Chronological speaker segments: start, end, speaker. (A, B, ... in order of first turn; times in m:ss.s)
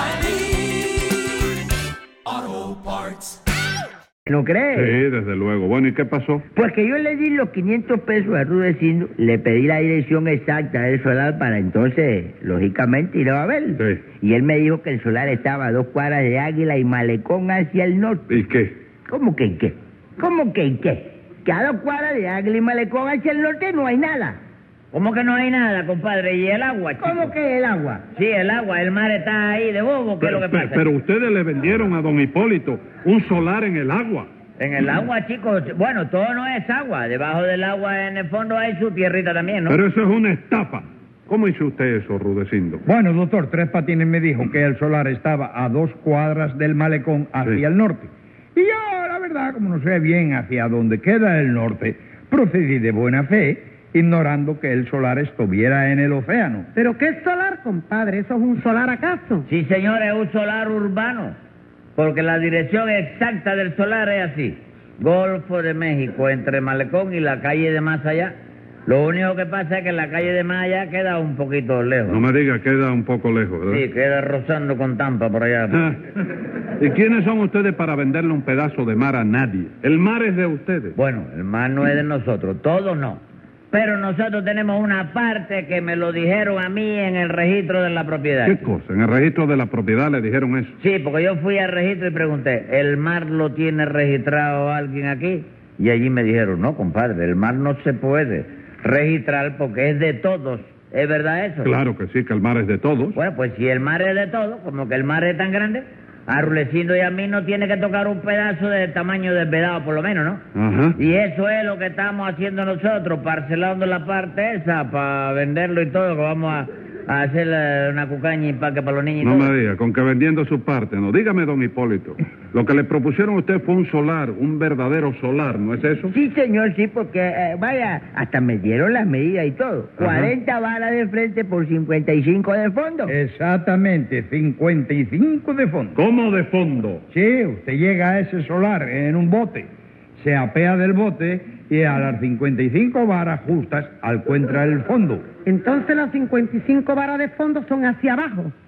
0:04.3-0:05.0 A
0:04.8-0:06.4 B
0:06.6-0:18.4 A
0:18.3-0:18.7 B
0:19.1-0:24.4 A
0:24.9-0:27.3 C
0:27.0-0:28.0 A
0:28.2-0:30.8 C
0:30.2-0:34.3 B
0:34.6-0:39.8 C
0:39.7-0:42.8 B
0:42.8-0:56.7 D
0:56.8-0:59.5 E
0:59.5-1:01.4 C
1:02.0-1:08.4 C
1:08.9-1:12.2 C
1:12.1-1:13.8 B
1:13.7-1:15.9 C
1:15.7-1:16.0 B
1:16.8-1:21.0 B
1:21.0-1:28.7 C
1:28.4-1:30.7 B
1:30.8-1:41.7 C
1:41.6-1:43.2 B
1:43.2-1:50.4 C
1:50.6-1:51.0 B
1:51.0-1:59.5 C
1:59.2-2:06.1 B
2:06.1-2:13.2 A
2:10.0-2:10.3 B
2:13.1-2:16.0 D
2:16.0-2:17.0 B
2:17.1-2:19.7 D
2:20.2-2:25.2 D
2:25.5-2:28.5 E